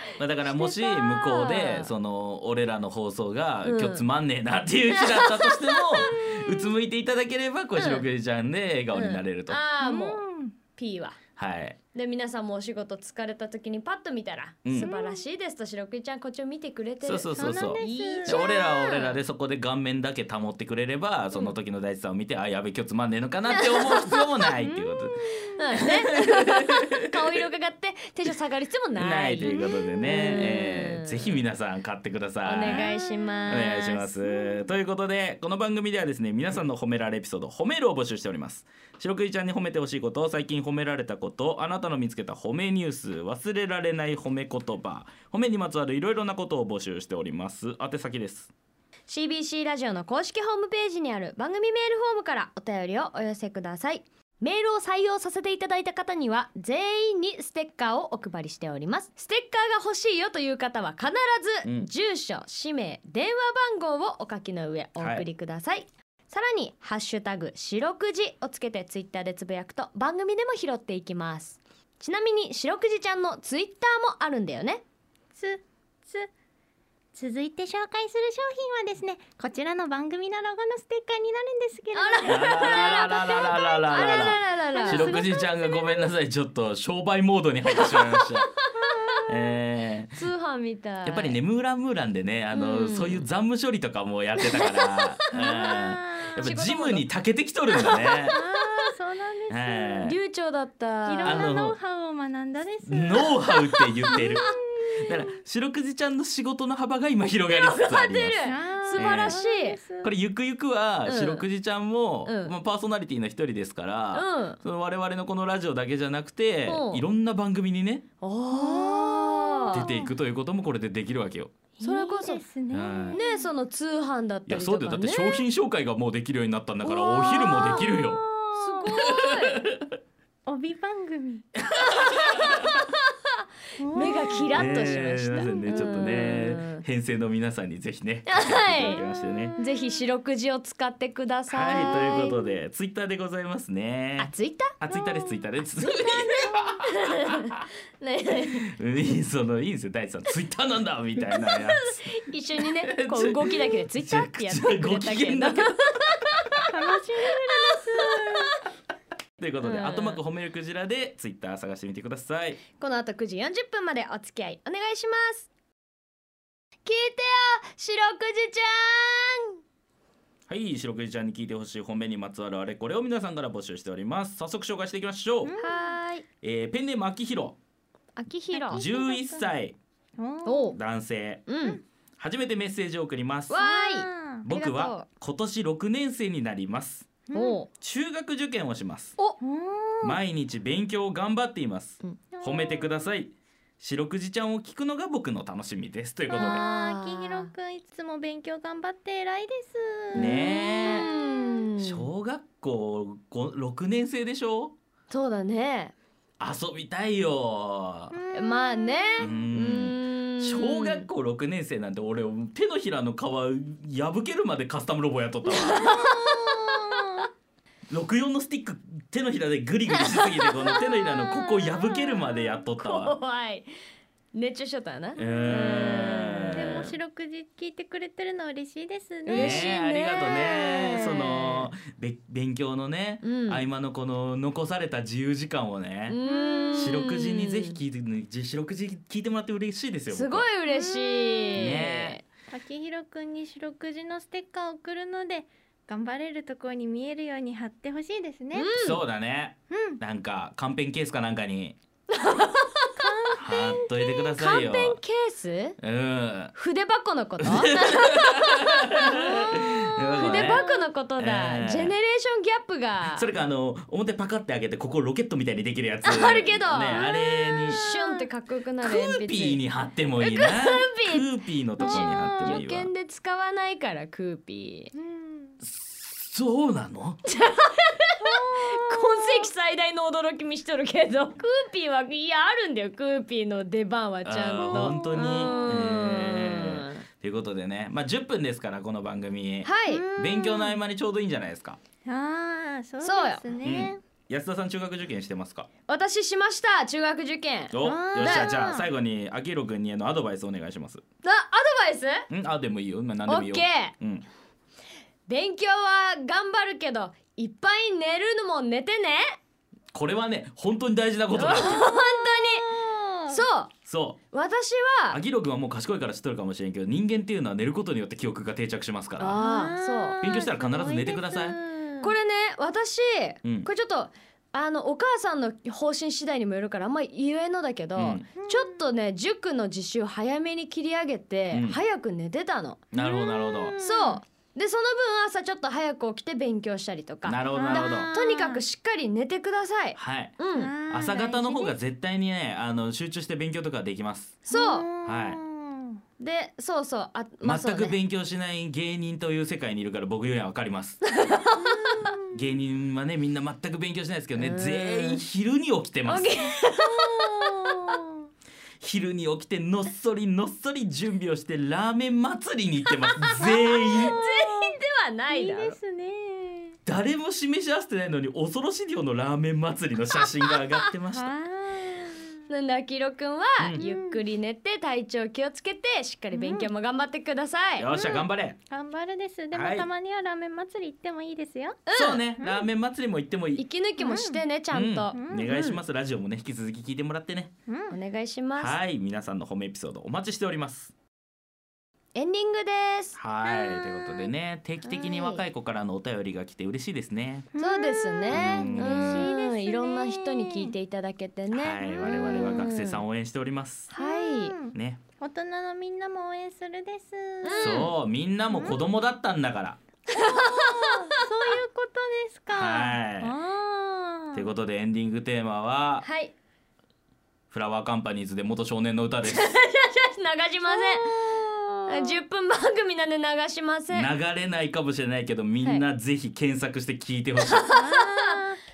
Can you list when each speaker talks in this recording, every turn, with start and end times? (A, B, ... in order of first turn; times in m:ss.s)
0:00.2-0:09.6 A
0:00.4-0:01.9 B
0:03.6-0:04.0 B
0:04.9-0:06.7 B
0:07.8-0:08.0 B
0:08.9-0:10.2 B
0:09.8-0:10.5 C
0:10.8-0:11.2 B
0:11.4-0:11.8 A
0:11.9-0:19.2 B
0:14.6-0:14.9 A
0:14.8-0:15.2 C
0:17.0-0:25.2 A
0:17.4-0:18.4 C
0:23.5-0:24.5 B
0:24.5-0:25.6 C
0:25.6-0:31.4 B
0:26.4-0:27.0 A
0:29.0-0:32.9 A
0:29.4-0:30.4 C
0:32.4-0:34.1 B
0:32.6-0:33.7 C
0:33.5-0:48.5 A
0:34.2-0:34.7 C
0:49.1-1:14.8 B
1:01.6-1:01.9 A
1:05.0-1:05.3 A
1:15.3-1:16.3 C
1:17.1-1:26.1 C
1:21.9-1:25.2 B
1:22.2-1:28.5 A
1:27.7-1:29.3 B
1:29.3-1:30.2 A
1:30.2-1:31.4 B
1:31.0-1:38.3 A
1:32.5-1:33.2 B
1:34.4-1:37.1 B
1:35.3-1:36.3 C
1:37.7-1:38.9 B
1:38.3-1:40.1 C
1:39.5-1:40.2 A
1:40.0-1:41.6 B
1:41.0-1:45.1 C
1:41.2-1:41.8 A
1:42.8-1:49.4 A
1:43.8-1:44.6 B
1:47.5-1:49.8 B
1:48.4-1:50.1 C
1:50.0-1:58.0 A
1:51.0-1:51.4 B
1:52.2-1:52.5 B
1:54.1-1:54.6 B
1:56.6-1:57.0 B
1:58.2-1:59.9 B
1:58.5-2:00.1 C
1:59.7-2:01.5 A
2:01.8-2:03.5 C
2:01.8-2:02.4 B
2:02.7-2:03.2 A
2:03.1-2:05.4 B
2:04.5-2:08.2 A
2:06.8-2:07.6 B
2:07.4-2:09.0 C
2:08.5-2:09.6 B
2:09.3-2:09.9 A
2:10.4-2:11.4 C
2:11.6-2:12.7 A
2:11.9-2:12.9 B
2:13.8-2:14.6 C
2:13.9-2:16.8 B
2:14.5-2:19.6 A
2:18.2-2:19.0 B
2:18.8-2:20.1 C
2:19.6-2:22.6 B
2:21.5-2:27.0 A
2:24.2-2:26.3 B
2:26.8-2:28.6 B
2:28.6-2:32.0 A
2:31.3-2:36.6 B
2:32.6-2:35.9 A
2:36.6-2:38.6 C
2:37.5-2:38.4 B
2:39.4-2:42.6 A
2:39.6-2:40.2 B
2:42.8-2:45.5 B
2:46.8-2:49.6 B
2:50.5-2:55.5 A
2:55.4-2:55.9 C
2:55.6-2:56.2 B
2:56.4-2:57.6 A
2:58.2-2:58.8 B
2:58.5-2:59.5 C
2:58.7-2:59.8 A
3:00.2-3:00.8 C
3:00.4-3:00.8 B
3:00.8-3:01.5 A
3:01.5-3:01.8 B
3:02.2-3:03.6 A
3:03.5-3:05.1 B
3:03.6-3:04.5 C
3:04.4-3:07.1 A
3:07.3-3:07.6 C
3:07.3-3:07.7 B
3:07.8-3:09.1 A
3:09.4-3:10.2 C
3:10.0-3:16.6 A
3:12.3-3:13.1 C
3:16.3-3:21.6 C
3:16.4-3:17.5 B
3:20.1-3:21.1 A
3:20.1-3:22.1 B
3:21.8-3:24.7 A
3:25.1-3:25.9 B
3:26.4-3:28.1 A
3:28.1-3:29.4 C
3:28.3-3:31.1 B
3:29.2-3:35.9 A
3:35.5-3:37.2 B
3:35.9-3:37.3 C
3:37.9-3:43.1 A
3:39.9-3:43.7 B
3:44.3-3:47.0 B
3:45.2-3:46.9 A
3:45.2-3:49.7 C
3:49.2-3:51.7 B
3:49.3-3:56.2 A
3:53.2-3:53.7 B
3:56.1-3:57.8 B
3:56.2-3:57.0 C
3:56.7-4:00.4 A
4:00.1-4:02.2 B
4:00.6-4:01.8 C
4:01.5-4:02.2 A
4:02.5-4:08.7 C
4:08.5-4:09.0 B
4:08.8-4:11.8 A
4:09.7-4:10.0 C
4:12.1-4:15.8 B
4:13.0-4:13.8 C
4:13.4-4:15.0 A
4:15.8-4:16.5 A
4:16.5-4:23.3 B
4:17.4-4:20.6 A
4:20.1-4:20.9 C
4:21.2-4:21.9 A
4:23.1-4:27.8 A
4:26.0-4:29.6 B
4:26.9-4:28.3 C
4:28.8-4:32.9 A
4:30.2-4:34.9 B
4:31.8-4:32.6 C
4:34.9-4:35.6 C
4:35.6-4:37.2 A
4:37.2-4:47.0 B
4:38.2-4:39.5 C
4:44.2-4:51.8 A
4:44.7-4:45.8 C
4:49.6-4:50.0 B
4:49.9-4:50.8 C
4:52.0-4:54.0 C
4:53.0-4:53.5 B
4:53.6-4:55.7 A
4:55.9-4:58.9 B
4:57.7-5:01.0 A
4:57.8-4:58.6 C
5:01.2-5:02.3 B
5:02.3-5:04.2 A
5:03.2-5:03.9 B
5:05.3-5:09.4 B
5:09.9-5:11.8 A
5:11.3-5:12.7 B
5:11.8-5:13.4 C
5:13.3-5:13.7 B
5:13.8-5:14.2 A
5:14.3-5:15.2 B
5:15.1-5:19.4 A
5:19.2-5:20.2 B
5:19.4-5:22.1 C
5:20.2-5:21.6 A
5:22.0-5:32.8 B
5:23.4-5:23.7 A
5:28.0-5:28.3 A
5:28.4-5:28.8 C
5:31.5-5:31.8 A
5:32.9-5:33.8 A
5:32.9-5:34.2 C
5:33.8-5:40.7 B
5:37.2-5:38.1 A
5:37.5-5:38.6 C
5:40.0-5:40.4 A
5:40.5-5:41.8 C
5:40.9-5:44.4 A
5:44.5-5:44.9 B
5:44.5-5:46.0 C
5:45.0-5:45.4 A
5:46.2-5:48.0 B
5:47.4-5:51.0 A
5:51.0-5:52.0 B
5:51.6-5:52.4 C
5:52.3-5:56.4 A
5:54.4-5:55.2 B
5:56.1-5:57.8 B
5:56.8-5:58.1 C
5:58.8-6:04.2 A
6:03.1-6:05.8 B
6:03.9-6:06.8 C
6:06.8-6:11.3 A
6:10.2-6:10.9 B
6:11.1-6:12.4 C
6:12.5-6:17.9 B
6:13.8-6:14.2 C
6:16.3-6:16.7 C
6:17.8-6:18.6 A
6:17.9-6:21.8 C
6:19.5-6:19.9 A
6:21.9-6:22.2 B
6:21.9-6:23.6 A
6:22.4-6:22.7 C
6:23.6-6:25.8 B
6:24.0-6:24.4 C
6:24.7-6:27.5 A
6:25.1-6:25.6 C
6:27.7-6:28.0 C
6:27.9-6:28.8 B
6:28.6-6:30.9 A
6:32.1-6:33.2 B
6:33.2-6:37.5 A
6:33.4-6:34.3 C
6:34.8-6:35.4 B
6:37.5-6:40.7 C
6:37.6-6:43.0 B
6:38.3-6:39.3 A
6:41.5-6:43.9 A
6:41.8-6:42.7 C
6:43.9-6:44.5 B
6:43.9-6:47.8 C
6:44.7-6:45.0 A
6:47.4-6:47.9 B
6:47.6-6:49.8 A
6:48.5-6:48.8 C
6:50.1-6:51.2 B
6:50.2-6:54.5 C
6:52.5-6:53.4 A
6:54.3-6:56.0 A
6:56.0-6:56.3 B
6:57.5-6:59.5 A
6:59.3-7:01.3 B
7:00.6-7:02.2 C
7:01.9-7:04.1 B
7:03.9-7:07.7 A
7:07.4-7:08.4 B
7:07.7-7:08.6 C